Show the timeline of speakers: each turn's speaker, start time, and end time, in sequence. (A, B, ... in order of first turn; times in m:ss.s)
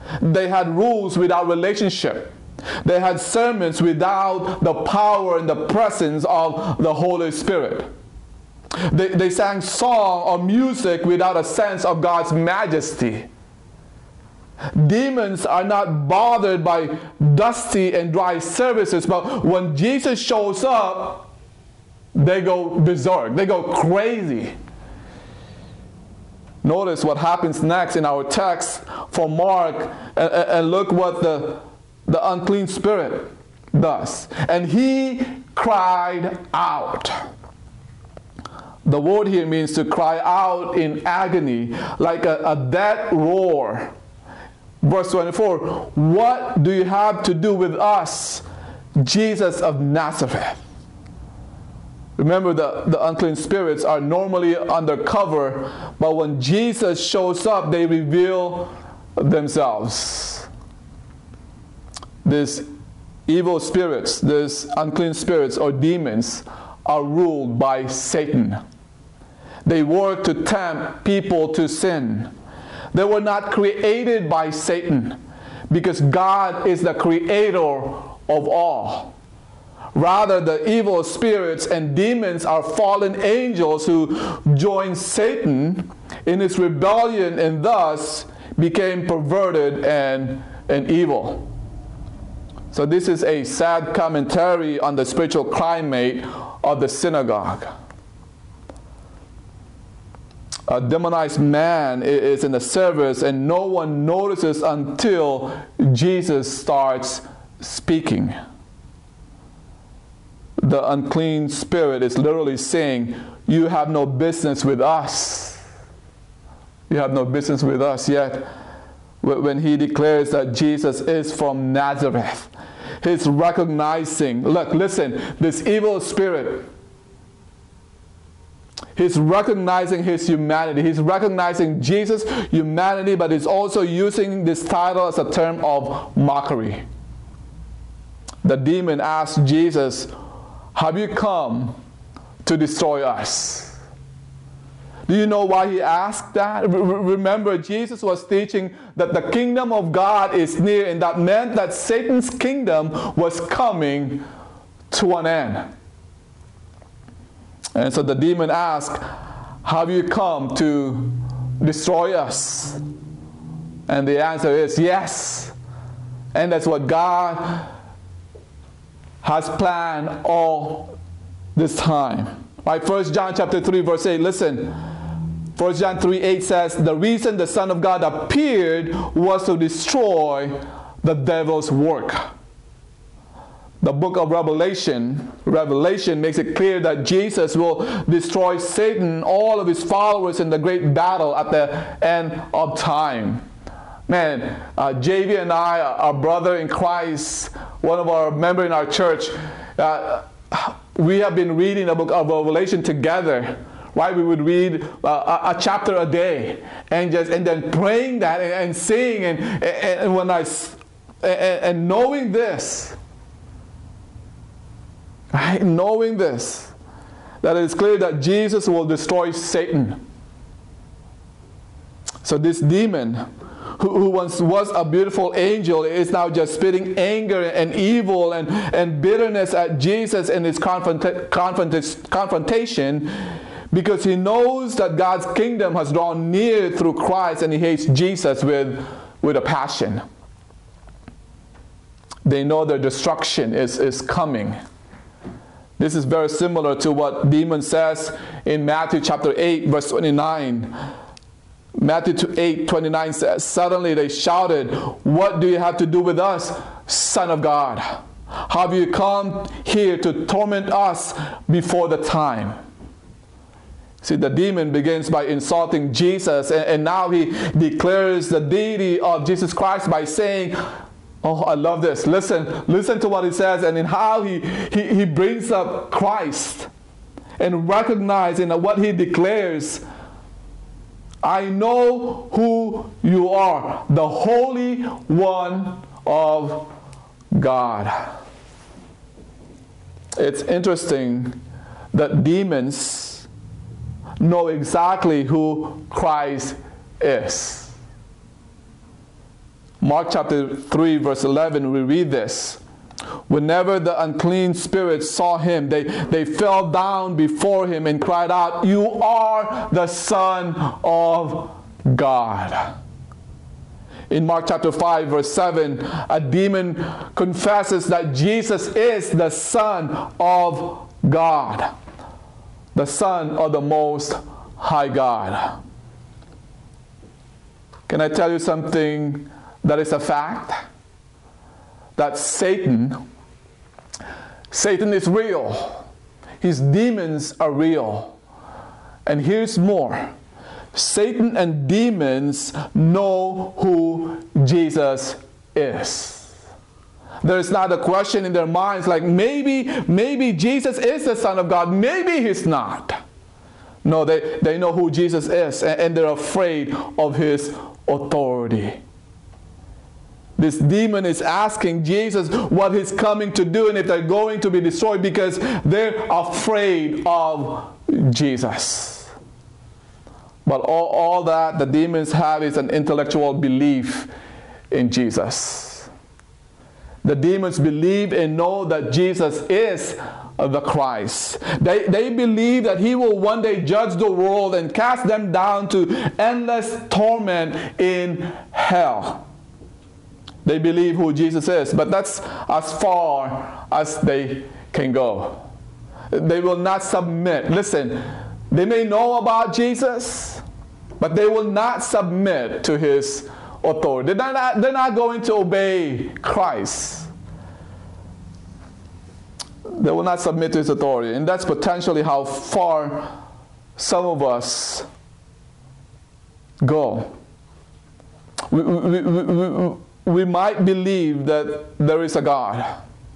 0:00.2-0:07.9 A
0:08.9-0:13.3 A
0:14.7-0:21.3 A
0:22.2-0:24.5 A
0:26.6-0:37.2 A
0:38.8-0:43.9 A
0:44.8-0:48.4 A
0:49.0-0:50.6 A
0:52.2-1:00.5 A
1:02.2-1:02.7 A
1:03.3-1:08.6 A
1:09.6-1:12.3 A
1:12.9-1:15.2 A
1:15.7-1:19.2 A
1:19.9-1:31.5 A
1:32.7-1:37.7 A
1:40.7-1:48.4 A
1:50.6-1:55.6 A
1:56.9-1:58.5 A
1:59.2-2:02.5 A
2:03.0-2:06.7 A
2:09.0-2:16.8 A
2:18.4-2:20.1 A
2:20.8-2:21.8 A
2:22.4-2:23.8 A
2:25.1-2:34.2 A
2:34.9-2:35.7 A
2:37.8-2:39.0 A
2:39.6-2:42.8 A
2:43.9-2:45.5 A
2:46.3-2:47.7 A
2:49.2-2:51.0 A
2:51.6-2:54.8 A
2:55.6-3:02.3 A
3:03.8-3:13.4 A
3:14.1-3:33.0 A
3:35.3-3:36.7 A
3:37.4-3:40.0 A
3:42.2-3:43.3 A
3:43.8-3:53.1 A
3:53.7-4:00.0 A
4:02.2-4:04.6 A
4:05.8-4:10.7 A
4:11.8-4:22.6 A
4:24.0-4:30.6 A
4:31.2-4:36.7 A
4:37.4-4:39.8 A
4:41.2-4:46.7 A
4:47.3-4:48.1 A
4:50.2-4:51.4 A
4:51.9-4:53.3 A
4:54.2-4:57.8 A
4:59.8-5:02.6 A
5:03.3-5:12.7 A
5:14.1-5:21.7 A
5:22.8-5:25.6 A
5:27.9-5:30.6 A
5:32.0-5:33.0 A
5:34.5-5:35.9 A
5:36.4-5:38.2 A
5:39.1-5:40.1 A
5:40.7-5:46.3 A
5:47.2-5:53.0 A
5:53.8-5:58.8 A
6:00.4-6:09.1 A
6:10.4-6:14.1 A
6:14.7-6:15.9 A
6:17.0-6:29.2 A
6:30.4-6:35.4 A
6:36.1-6:40.4 A
6:41.0-6:47.1 A
6:49.7-6:53.1 A
6:53.8-6:54.9 A
6:56.6-6:57.1 A
6:58.5-7:02.8 A